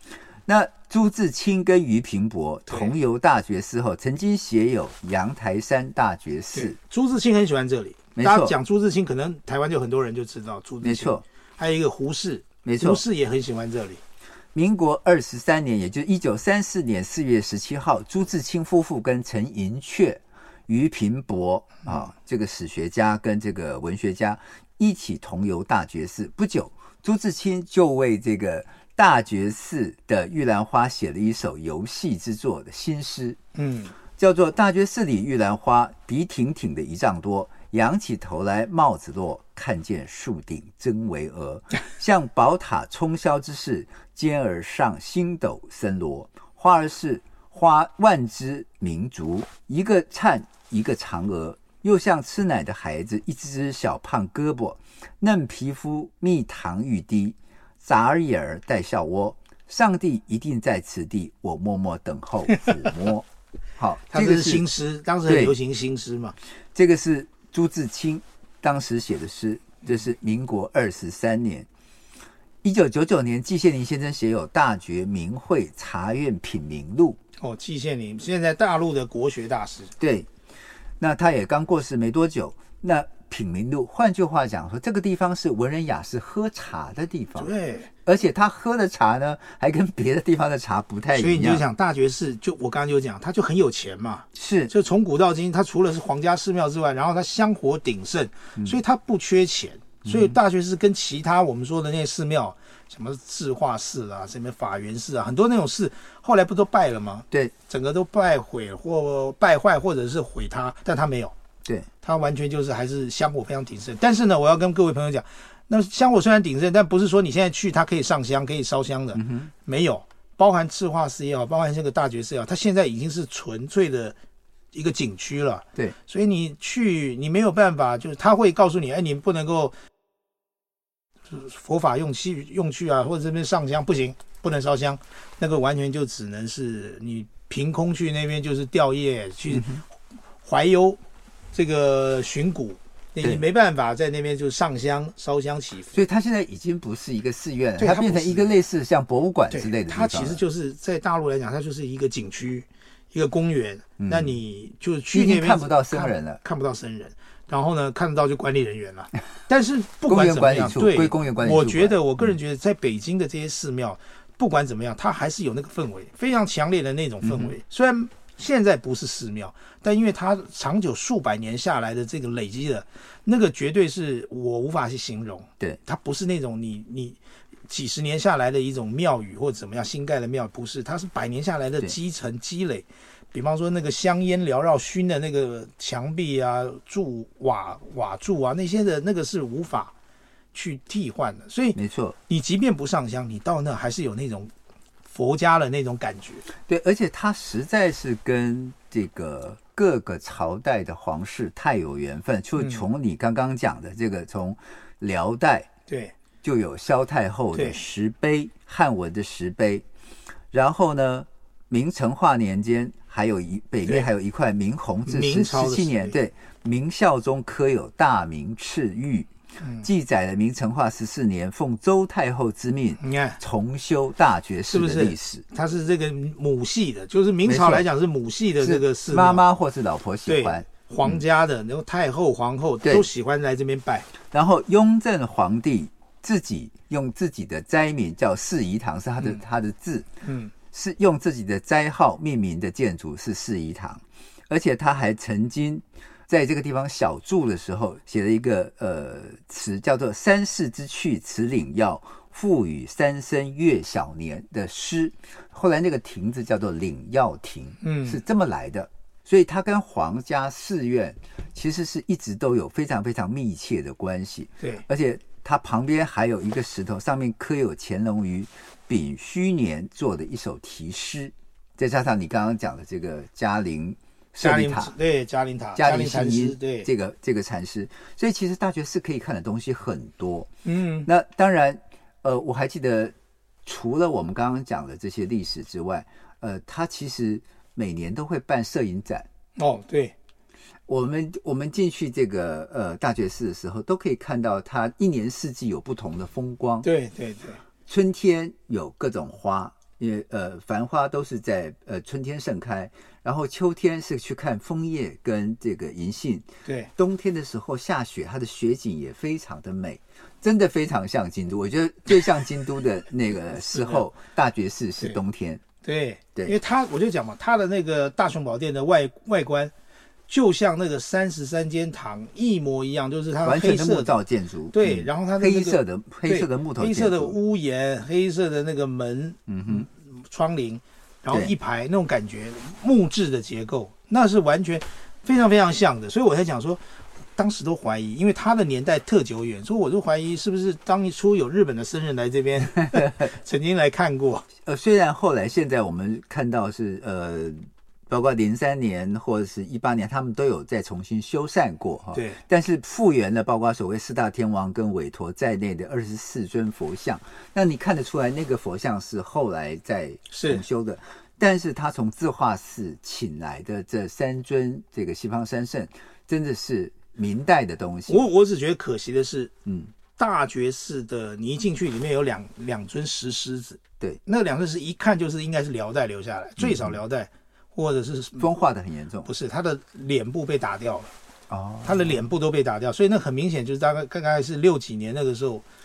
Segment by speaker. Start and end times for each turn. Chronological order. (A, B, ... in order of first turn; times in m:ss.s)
0:00.4-0:06.8 A
0:02.7-0:02.9 B
0:06.5-0:14.0 B
0:08.2-0:08.5 A
0:10.8-0:11.2 A
0:12.6-0:13.0 A
0:14.5-0:33.4 A
0:33.6-0:33.9 B
0:34.2-1:03.2 A
1:03.8-1:04.7 A
1:04.1-1:06.3 B
1:05.3-1:05.5 A
1:06.7-1:11.7 A
1:12.6-1:17.2 A
1:17.4-1:19.9 B
1:20.0-1:20.3 A
1:21.0-1:27.5 A
1:27.4-1:27.9 B
1:28.0-1:31.6 A
1:31.1-1:51.3 B
1:34.3-1:34.7 A
1:40.0-1:40.4 A
1:52.0-2:04.1 B
1:59.1-1:59.5 A
2:04.7-2:09.7 B
2:11.3-2:19.8 B
2:19.5-2:19.8 A
2:20.4-2:21.0 B
2:21.5-2:26.0 B
2:25.9-2:30.4 A
2:27.8-2:28.5 B
2:29.5-2:57.2 B
2:34.0-2:34.3 A
2:35.1-2:36.4 A
2:40.0-2:42.0 A
2:47.2-2:47.5 A
2:57.7-3:09.9 B
3:10.5-3:14.5 B
3:11.8-3:12.2 A
3:15.1-3:16.4 B
3:16.7-3:25.7 A
3:25.9-3:26.1 B
3:26.4-3:29.8 A
3:27.5-3:27.8 B
3:30.5-3:39.3 A
3:35.1-3:36.2 B
3:39.8-3:45.4 A
3:43.0-3:43.4 B
3:44.7-3:49.4 B
3:47.4-3:47.8 A
3:48.6-3:51.2 A
3:50.2-3:54.1 B
3:54.3-4:00.1 A
4:00.2-4:00.5 B
4:00.7-4:34.9 A
4:17.8-4:18.2 B
4:34.4-4:36.9 B
4:35.8-4:40.5 A
4:40.6-4:41.1 B
4:41.0-4:43.1 A
4:43.6-4:49.3 A
4:49.6-4:50.1 B
4:50.9-4:56.9 A
4:56.8-4:57.6 B
4:57.9-5:15.6 A
5:06.6-5:06.9 B
5:13.7-5:14.0 B
5:15.8-5:19.7 B
5:20.3-5:24.1 B
5:23.4-5:27.4 A
5:24.7-5:36.8 B
5:29.5-5:29.9 A
5:37.4-5:44.5 B
5:42.9-5:43.3 A
5:44.6-6:08.3 A
5:52.1-5:52.4 B
6:00.3-6:00.6 B
6:08.1-6:09.5 B
6:09.6-6:09.9 A
6:10.2-6:18.5 B
6:16.6-6:16.9 A
6:18.4-6:19.3 A
6:19.2-6:21.1 B
6:21.5-6:22.2 A
6:21.8-6:25.6 B